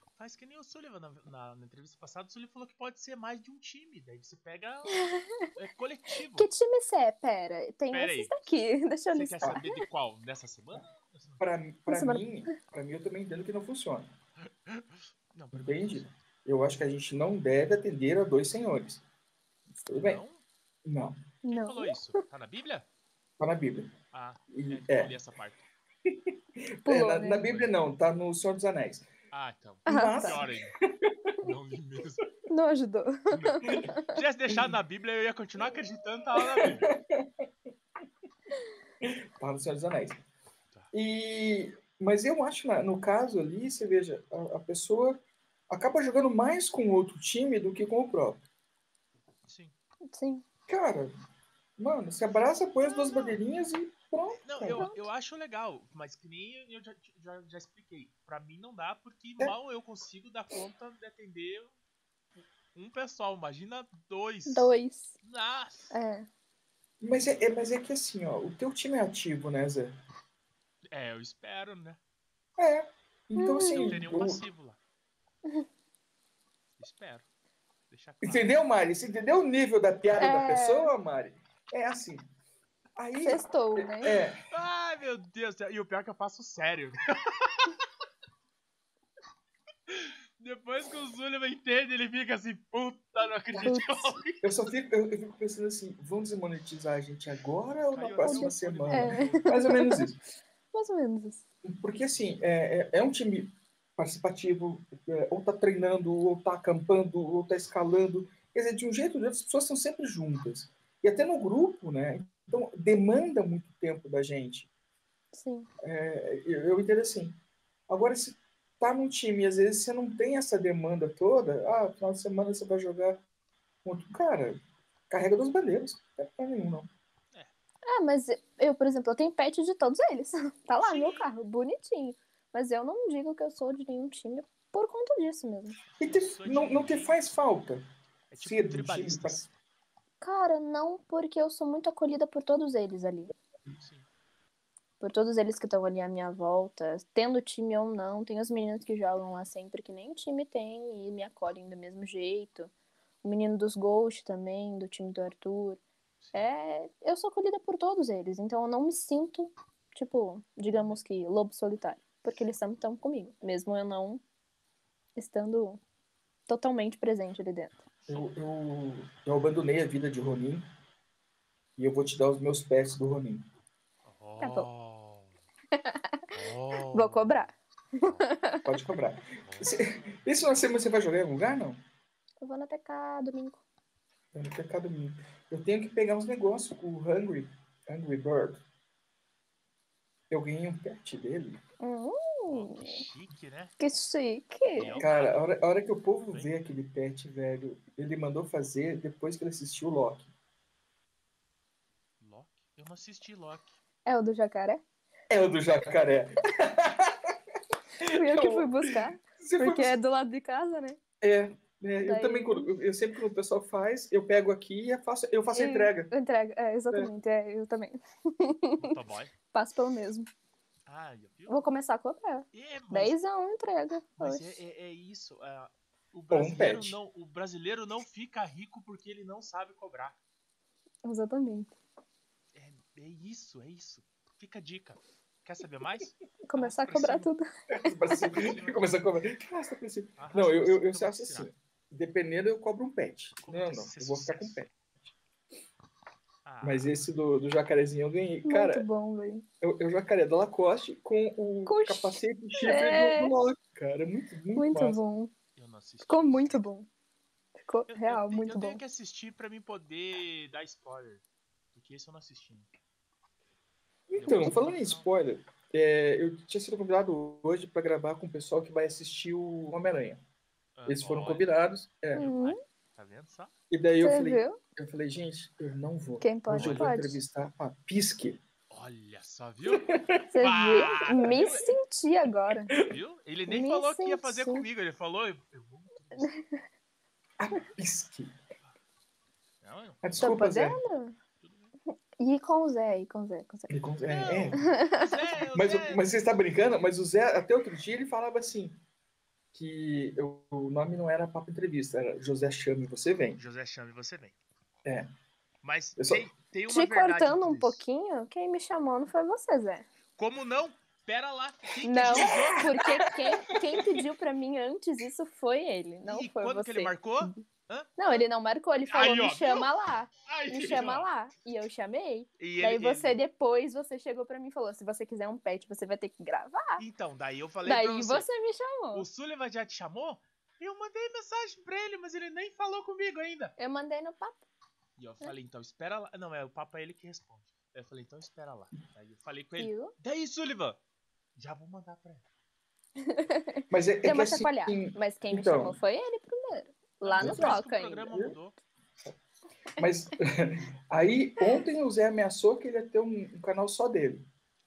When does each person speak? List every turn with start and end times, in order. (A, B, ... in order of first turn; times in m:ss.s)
0:00.2-0:05.0 A
0:04.9-0:05.5 B
0:05.6-0:06.5 A
0:06.4-0:09.7 B
0:07.9-0:08.6 A
0:09.1-0:11.5 A
0:11.4-0:14.1 C
0:11.9-0:12.2 B
0:14.4-0:16.1 A
0:15.5-0:19.0 C
0:19.8-0:20.2 C
0:19.9-0:20.4 A
0:20.9-0:21.2 C
0:21.4-0:22.2 B
0:21.5-0:22.9 A
0:23.4-0:23.9 C
0:24.1-0:25.6 A
0:24.5-0:25.1 C
0:26.1-0:29.0 C
0:26.9-0:27.5 B
0:27.4-0:27.7 A
0:29.3-0:30.8 A
0:29.9-0:30.4 B
0:29.9-0:30.5 C
0:31.0-0:31.3 C
0:31.4-0:32.3 A
0:32.5-0:34.2 B
0:33.3-0:36.9 A
0:33.6-0:33.9 C
0:36.4-0:37.3 C
0:39.0-0:40.2 C
0:40.9-0:48.4 C
0:49.5-0:49.8 A
0:50.1-0:50.4 B
0:50.7-0:51.1 C
0:51.8-0:54.9 C
0:52.8-0:53.3 A
0:54.4-1:01.7 A
0:54.7-0:55.1 B
1:02.7-1:06.0 A
1:04.5-1:05.2 B
1:05.9-1:06.3 B
1:07.0-1:10.0 C
1:07.2-1:07.5 A
1:10.9-1:12.0 A
1:12.6-1:14.4 C
1:13.4-1:13.9 B
1:13.7-1:14.8 A
1:16.8-1:17.3 A
1:17.9-1:18.6 A
1:18.2-1:22.2 C
1:20.2-1:20.9 B
1:23.0-1:24.4 C
1:23.2-1:24.1 B
1:24.5-1:27.8 A
1:29.9-1:34.5 A
1:33.6-1:34.2 B
1:34.4-1:40.2 C
1:37.9-1:39.6 A
1:38.2-1:40.0 B
1:40.7-1:41.4 B
1:41.6-1:54.7 C
1:55.3-1:55.7 B
1:55.8-1:57.4 C
1:57.9-2:03.2 C
2:03.8-2:06.9 C
2:07.9-2:15.8 B
2:10.8-2:11.3 A
2:15.9-2:17.2 A
2:16.0-2:17.8 C
2:18.3-2:19.5 A
2:18.4-2:19.4 C
2:20.2-2:23.3 B
2:23.8-2:24.1 A
2:25.0-2:32.7 B
2:33.2-2:35.8 B
2:36.2-2:36.5 A
2:36.3-2:44.2 B
2:40.7-2:41.0 A
2:45.2-2:45.8 B
2:46.5-2:47.8 B
2:48.0-2:48.3 A
2:48.1-2:50.6 C
2:51.8-2:53.5 C
2:54.0-2:55.4 A
2:54.4-2:54.7 B
2:55.8-2:56.0 B
2:56.3-2:57.5 A
2:56.9-2:58.7 B
2:58.0-2:58.3 A
2:58.6-3:01.8 C
2:59.4-3:00.4 A
3:02.4-3:03.6 B
3:04.3-3:08.6 C
3:10.3-3:11.6 C
3:11.8-3:13.0 B
3:12.5-3:13.7 A
3:13.8-3:15.0 B
3:14.8-3:15.4 A
3:15.0-3:20.3 C
3:16.3-3:16.6 A
3:22.2-3:23.8 A
3:24.0-3:24.8 B
3:25.3-3:27.4 C
3:28.0-3:30.0 C
3:28.0-3:31.0 B
3:31.2-3:36.1 C
3:32.0-3:32.7 B
3:35.5-3:38.9 B
3:38.8-3:39.3 A
3:39.5-3:40.3 B
3:40.9-3:41.7 A
3:41.5-3:44.6 B
3:42.5-3:43.2 A
3:44.2-3:50.2 A
3:46.3-3:47.0 C
3:51.0-3:51.7 B
3:52.5-3:57.3 A
3:56.5-3:57.4 B
3:57.7-4:05.1 C
3:58.2-3:58.9 A
4:00.2-4:01.5 A
4:03.4-4:04.7 A
4:06.4-4:06.9 A
4:06.6-4:08.8 C
4:08.4-4:09.4 B
4:09.6-4:15.0 C
4:11.7-4:13.3 B
4:14.5-4:15.3 B
4:15.6-4:16.7 A
4:16.1-4:16.9 B
4:17.7-4:18.8 B
4:17.9-4:22.7 A
4:24.1-4:30.2 C
4:24.2-4:25.1 A
4:30.8-4:31.5 A
4:30.9-4:32.3 C
4:32.1-4:33.5 A
4:32.2-4:32.6 B
4:33.7-4:38.4 C
4:34.0-4:34.6 B
4:36.2-4:37.2 B
4:36.5-4:36.9 A
4:38.7-4:39.9 A
4:39.6-4:40.2 C
4:40.3-4:42.7 B
4:40.4-4:41.7 A
4:42.9-4:46.3 A
4:43.5-4:44.6 B
4:46.2-4:46.6 B
4:47.4-4:48.3 C
4:49.6-4:50.0 A
4:50.0-4:50.8 C
4:50.2-4:51.2 B
4:51.4-4:51.7 A
4:52.2-4:53.7 B
4:53.7-4:54.6 C
4:54.1-4:56.0 A
4:54.7-4:55.1 B
4:55.5-4:58.8 C
4:59.5-5:03.4 C
5:03.4-5:04.4 A
5:05.6-5:07.8 A
5:06.0-5:06.2 C
5:06.7-5:09.9 B
5:10.2-5:12.7 A
5:11.8-5:17.4 B
5:12.0-5:14.0 C
5:16.0-5:17.9 A
5:18.0-5:26.8 B
5:18.9-5:19.7 A
5:20.2-5:21.1 A
5:22.4-5:23.2 A
5:26.8-5:28.3 A
5:27.6-5:29.0 B
5:28.9-5:33.5 A
5:33.6-5:34.4 B
5:35.0-5:40.8 A
5:39.6-5:39.9 B
5:41.4-5:42.2 A
5:43.0-5:48.0 B
5:43.7-5:45.8 C
5:47.0-5:48.6 A
5:47.2-5:48.3 C
5:49.8-5:54.2 C